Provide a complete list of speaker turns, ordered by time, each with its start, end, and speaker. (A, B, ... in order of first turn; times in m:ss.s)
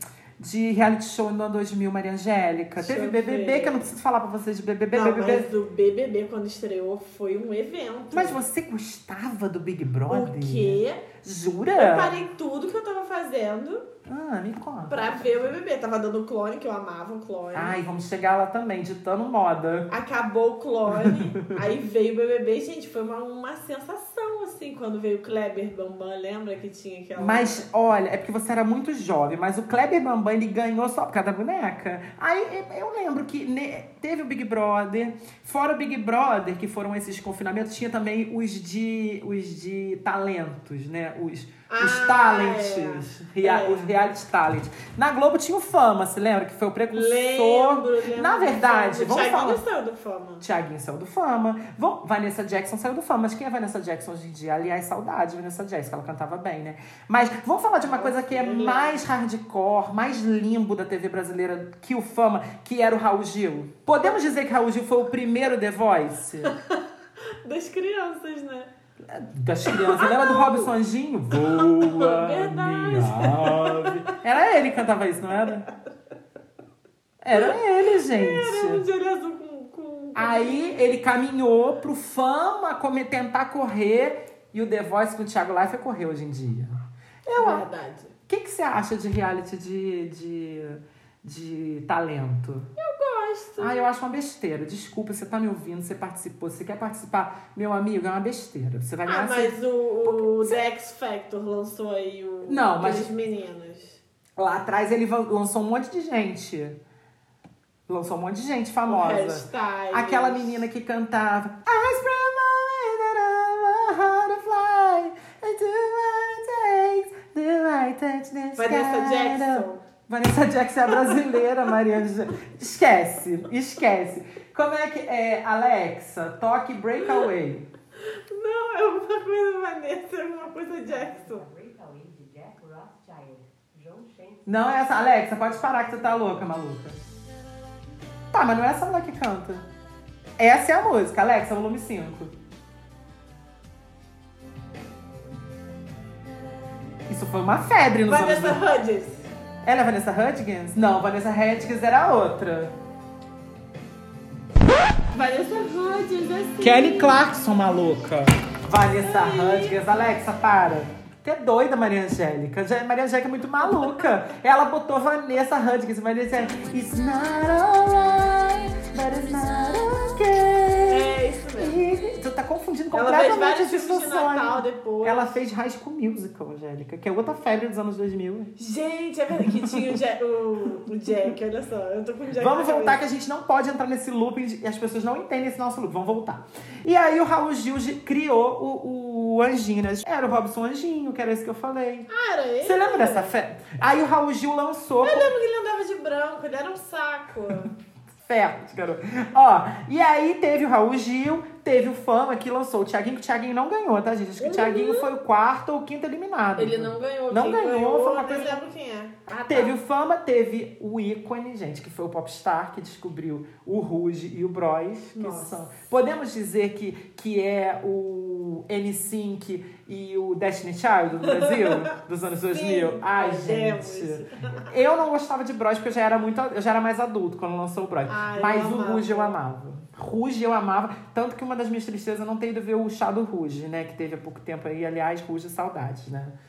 0:00.4-0:05.5 A
0:02.8-0:03.9 B
0:04.9-0:08.4 B
0:08.1-0:12.2 A
0:10.1-0:11.1 B
0:11.8-0:13.8 B
0:14.1-0:15.3 A
0:14.9-0:17.8 B
0:17.5-0:19.9 A
0:19.9-0:27.6 B
0:20.9-0:21.6 A
0:27.2-0:49.6 A
0:41.7-0:43.9 B
0:46.9-0:50.4 B
0:50.4-1:06.5 A
0:57.8-0:59.1 B
1:06.4-1:08.7 B
1:09.0-1:15.7 A
1:09.7-1:10.7 B
1:11.3-1:14.2 B
1:17.2-1:18.8 A
1:17.4-1:20.6 B
1:20.2-1:27.7 A
1:27.4-1:28.1 B
1:28.3-1:32.7 A
1:32.8-1:33.9 B
1:33.6-1:40.6 A
1:39.0-1:44.0 B
1:42.5-1:43.1 A
1:44.4-1:46.8 A
1:47.9-2:07.7 A
1:48.9-1:50.6 B
1:58.6-1:59.8 B
2:08.1-2:11.4 B
2:10.4-2:16.2 C
2:14.5-2:17.0 A
2:18.3-2:19.6 A
2:20.4-2:22.3 A
2:27.1-2:28.6 A
2:28.1-2:29.3 B
2:29.6-2:32.7 A
2:35.1-2:37.2 B
2:36.6-2:58.5 A
2:39.0-2:39.8 B
2:50.9-2:51.8 B
2:52.9-2:55.4 B
2:58.6-3:03.0 B
2:59.4-3:00.0 A
3:02.4-3:12.1 A
3:12.1-3:13.3 B
3:12.6-3:15.3 A
3:15.0-3:17.7 B
3:18.2-3:28.6 A
3:24.4-3:25.1 B
3:26.6-3:29.8 B
3:29.5-3:56.4 A
3:35.2-3:35.6 B
3:41.2-3:41.9 B
3:42.5-3:44.7 B
3:48.1-3:49.4 B